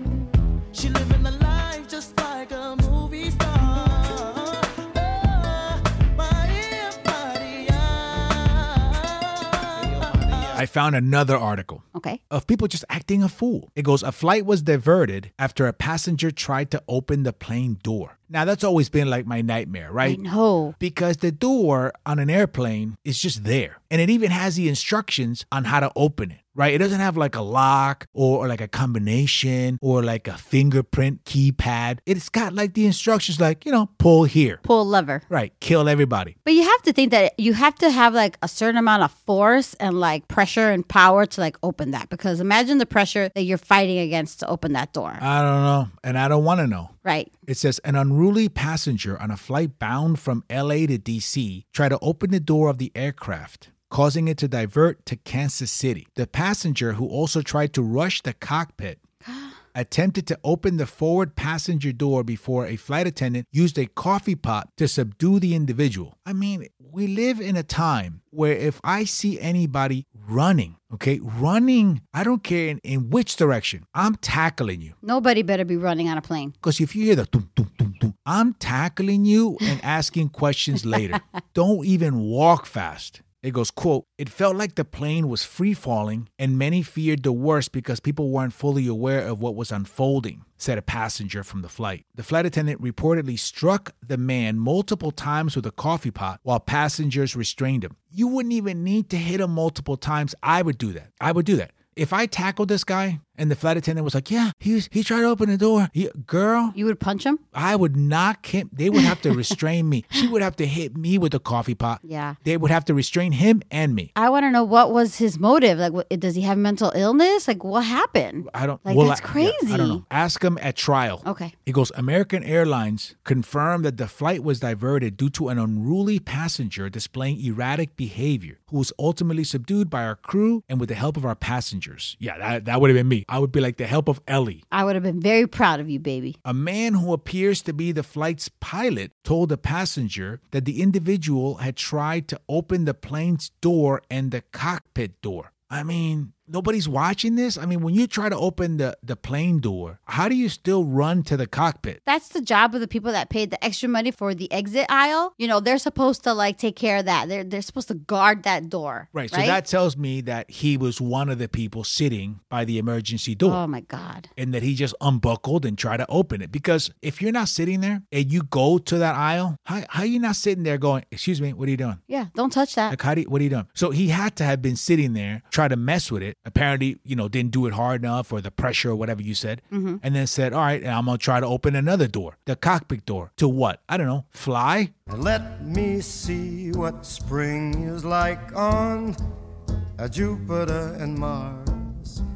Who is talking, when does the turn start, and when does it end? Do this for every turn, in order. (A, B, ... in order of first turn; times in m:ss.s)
0:00.7-0:10.6 A
0:10.5-0:20.2 B
0:12.0-0:12.2 C
0:20.0-0:20.8 C
0:20.8-0:34.6 B
0:34.6-0:35.2 C
0:35.3-0:36.4 B
0:36.4-0:45.2 C
0:45.2-0:46.9 B
0:47.0-0:47.3 C
0:47.5-0:59.0 B
0:59.2-0:59.6 C
0:59.7-1:15.0 B
1:15.0-1:16.5 C
1:16.6-1:46.8 B
1:46.7-1:47.4 C
1:47.5-1:54.1 B
1:52.0-1:52.4 C
1:54.2-2:00.0 C
1:58.4-2:14.6 B
2:01.2-2:01.5 C
2:14.7-2:16.4 C
2:16.4-2:32.0 B
2:32.1-2:39.6 C
2:39.1-2:43.6 B
2:43.4-2:44.3 C
2:44.4-2:52.0 B
2:52.1-2:53.0 C
2:52.9-3:04.9 B
2:59.7-3:00.0 C
3:05.1-3:09.2 D
3:10.0-3:12.2 D